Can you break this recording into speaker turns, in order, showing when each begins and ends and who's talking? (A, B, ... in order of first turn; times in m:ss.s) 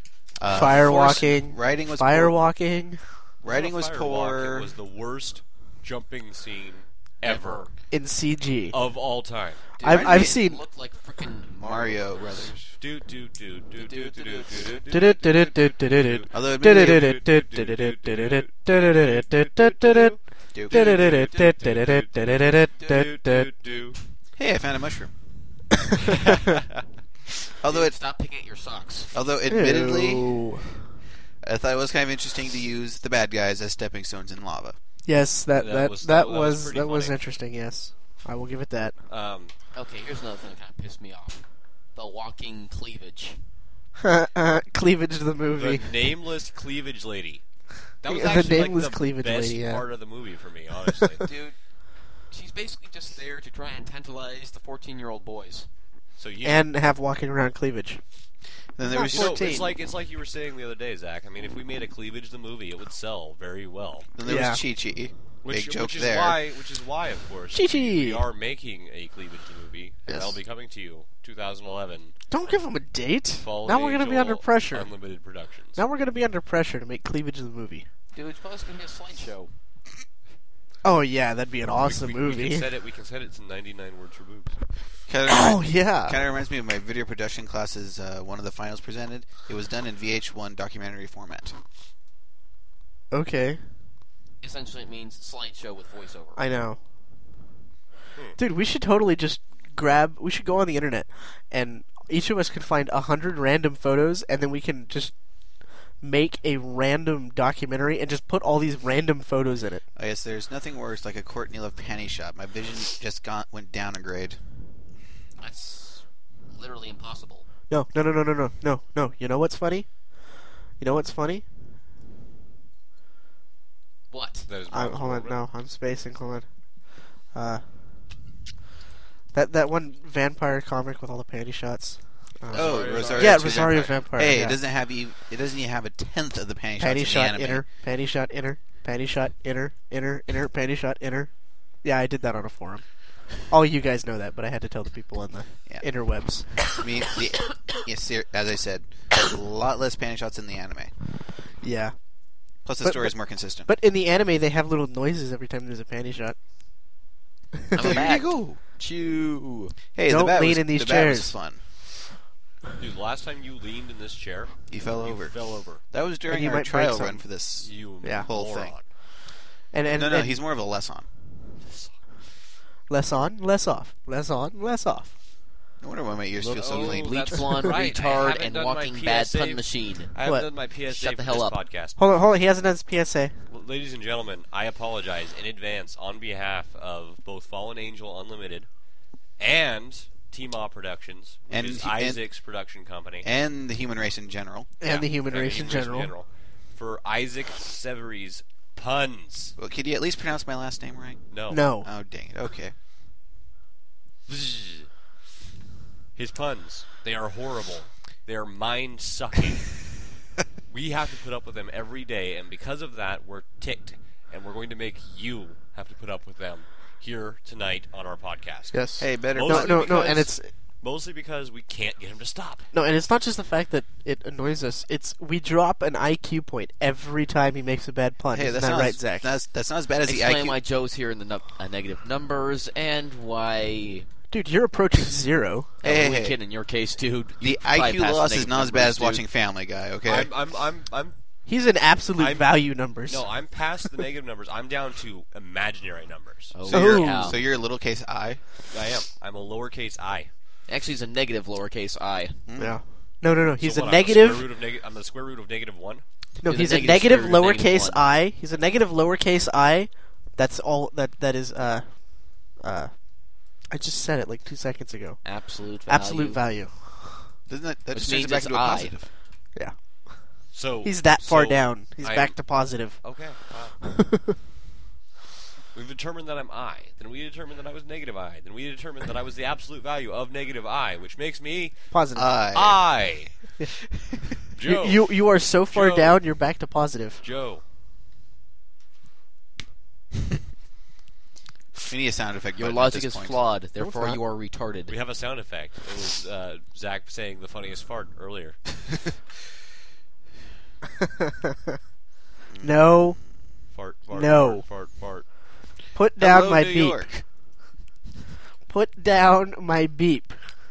0:00.4-0:02.4 A
0:00.4-0:03.3 B
0:03.4-0:04.7 A
0:03.4-0:07.7 C
0:07.2-0:07.7 D
0:07.9-0:08.8 B
0:08.7-0:09.6 C
0:09.8-0:12.5 D
0:09.8-0:10.6 B
0:09.8-0:10.4 A
0:11.6-0:12.5 A
0:12.4-0:24.0 C
0:13.8-0:14.8 D
0:14.9-0:20.1 B
0:16.3-0:17.2 A
0:20.5-0:21.0 A
0:20.7-0:23.5 B
0:21.0-0:21.3 D
0:24.4-0:25.1 A
0:26.0-0:26.7 C
0:27.6-0:28.0 A
0:27.6-0:29.1 D
0:29.1-0:30.4 A
0:29.5-0:30.8 B
0:31.4-0:34.8 A
0:35.0-0:39.0 B
0:35.5-0:37.2 C
0:39.1-0:39.5 C
0:39.7-0:43.4 D
0:44.0-0:46.1 B
0:45.5-0:47.4 C
0:48.0-0:51.2 C
0:48.0-0:49.8 B
0:51.0-0:51.2 B
0:51.2-0:51.6 D
0:52.3-0:55.7 D
0:56.2-0:56.7 C
0:56.4-0:58.0 B
0:58.8-0:59.6 A
0:58.8-0:59.7 B
0:59.1-1:04.1 C
1:04.1-1:06.4 A
1:04.2-1:04.6 B
1:05.4-1:12.1 C
1:07.5-1:08.2 B
1:10.1-1:10.4 B
1:12.3-1:14.9 B
1:13.4-1:15.8 C
1:15.8-1:17.9 B
1:18.1-1:19.5 D
1:20.8-1:22.6 B
1:21.7-1:24.6 C
1:25.1-1:31.5 A
1:25.2-1:26.2 B
1:33.1-1:33.6 B
1:34.4-1:36.4 D
1:36.4-1:36.8 B
1:38.4-1:45.2 B
1:46.0-1:49.8 B
1:50.0-1:54.4 A
1:55.4-1:57.4 D
1:57.7-2:01.4 B
2:04.1-2:04.5 D
2:04.5-2:05.4 C
2:04.7-2:06.5 B
2:07.3-2:07.6 B
2:09.3-2:14.6 B
2:12.5-2:13.9 C
2:12.5-2:13.6 D
2:12.5-2:17.6 A
2:16.8-2:26.7 B
2:26.7-2:30.9 A
2:31.6-2:31.9 B
2:32.6-2:33.7 A
2:32.8-2:33.1 B
2:33.6-2:36.4 B
2:37.7-2:39.7 D
2:37.7-2:38.0 B
2:37.8-2:38.6 A
2:39.9-2:41.6 A
2:40.1-2:41.4 B
2:42.8-2:45.8 C
2:44.7-2:48.8 A
2:46.3-2:47.2 B
2:47.6-2:48.8 C
2:48.0-2:48.3 B
2:49.7-2:50.4 B
2:49.9-2:51.1 A
2:51.6-2:51.9 C
2:52.9-2:55.1 B
2:55.8-2:57.3 A
2:56.4-3:00.1 D
2:56.5-3:02.0 C
3:00.9-3:01.6 D
3:02.0-3:03.3 B
3:03.5-3:08.7 C
3:09.4-3:13.3 C
3:11.5-3:12.2 A
3:13.2-3:14.7 A
3:14.8-3:16.1 B
3:14.8-3:19.5 C
3:19.6-3:21.2 A
3:21.3-3:21.6 C
3:21.5-3:21.9 B
3:21.8-3:22.7 A
3:24.3-3:24.9 C
3:26.2-3:29.9 C
3:30.7-3:42.6 C
3:38.7-3:40.5 B
3:39.0-3:40.0 A
3:42.7-3:49.3 B
3:48.3-3:50.6 A
3:50.0-3:54.1 D
3:54.3-3:55.7 B
3:55.8-3:59.2 D
3:55.8-3:56.4 A
3:57.4-4:00.3 A
4:00.0-4:01.1 C
4:01.5-4:03.2 B
4:02.2-4:06.6 C
4:06.5-4:07.4 D
4:06.6-4:08.4 A
4:06.7-4:07.4 B
4:08.7-4:10.3 C
4:10.7-4:12.4 D
4:12.5-4:12.8 A
4:12.6-4:14.5 B
4:13.6-4:16.0 C
4:16.4-4:23.1 B
4:16.5-4:18.1 D
4:23.7-4:25.2 B
4:25.2-4:26.4 D
4:25.8-4:27.3 B
4:27.5-4:29.1 A
4:27.9-4:29.0 D
4:29.6-4:30.1 B
4:30.5-4:32.4 C
4:30.8-4:33.2 B
4:33.0-4:33.8 C
4:33.8-4:34.4 B
4:35.7-4:41.9 C
4:41.9-4:42.4 B
4:42.1-4:42.8 A
4:42.4-4:43.4 C
4:44.0-4:44.3 A
4:44.6-4:45.1 C
4:44.6-4:47.2 B
4:45.7-4:46.2 C
4:47.2-4:47.6 C
4:51.8-4:53.4 A
4:52.6-4:54.9 D
4:53.8-4:54.2 B
4:54.9-4:58.6 C
5:02.5-5:03.0 A
5:02.6-5:03.2 B
5:03.7-5:05.2 C
5:04.1-5:04.6 B
5:05.9-5:07.1 B
5:06.2-5:07.2 A
5:08.7-5:10.5 B